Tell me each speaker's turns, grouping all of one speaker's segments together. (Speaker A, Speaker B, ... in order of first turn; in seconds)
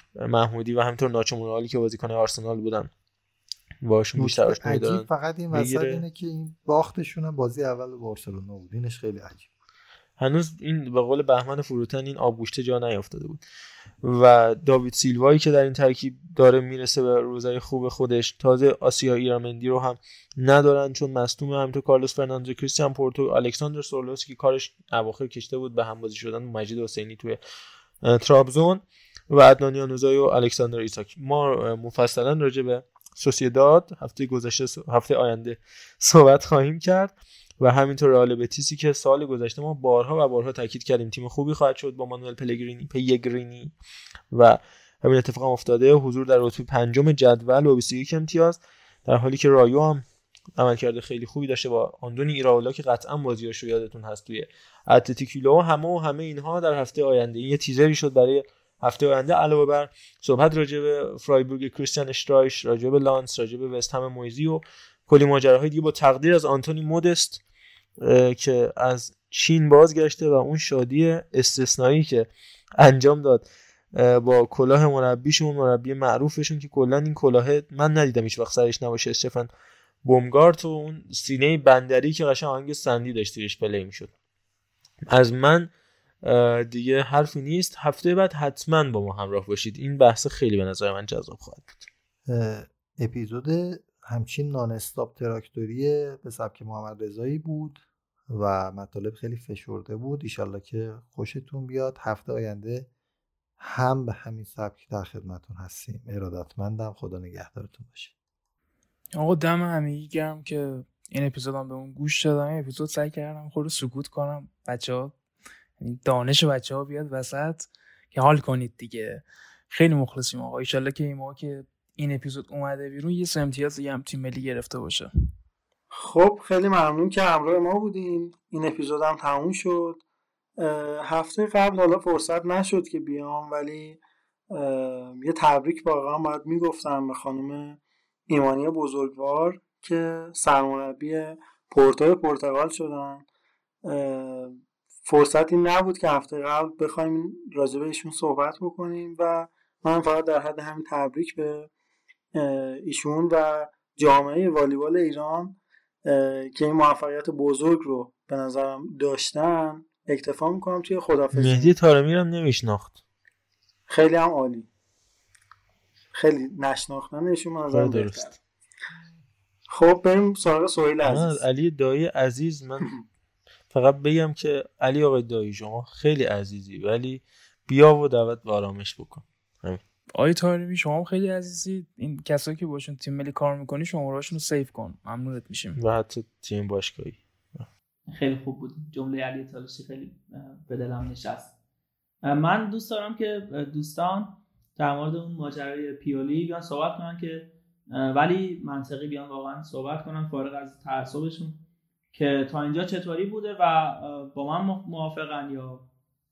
Speaker A: 0.2-2.9, 3.8-6.0, 10.2-13.4, 14.0-27.4, 28.0-43.7, 44.3-50.0, 50.6-67.4, 68.0-79.5, 80.0-84.1, 85.1-85.7, 86.2-91.8, 161.3-163.0, 167.7-168.3, 171.0-172.9, 173.7-179.8, 185.8-187.7
Speaker B: 4.2-9.5, 92.3-102.9, 103.6-108.1
Speaker C: 109.2-115.1, 115.8-125.1, 180.2-185.8
Speaker D: 125.9-130.0, 130.6-134.0, 134.5-143.2, 143.8-151.7, 152.3-161.7, 163.9-164.7, 166.1-168.3, 169.7-171.4
Speaker E: 188.1-191.5, 192.2-201.6, 202.1-205.8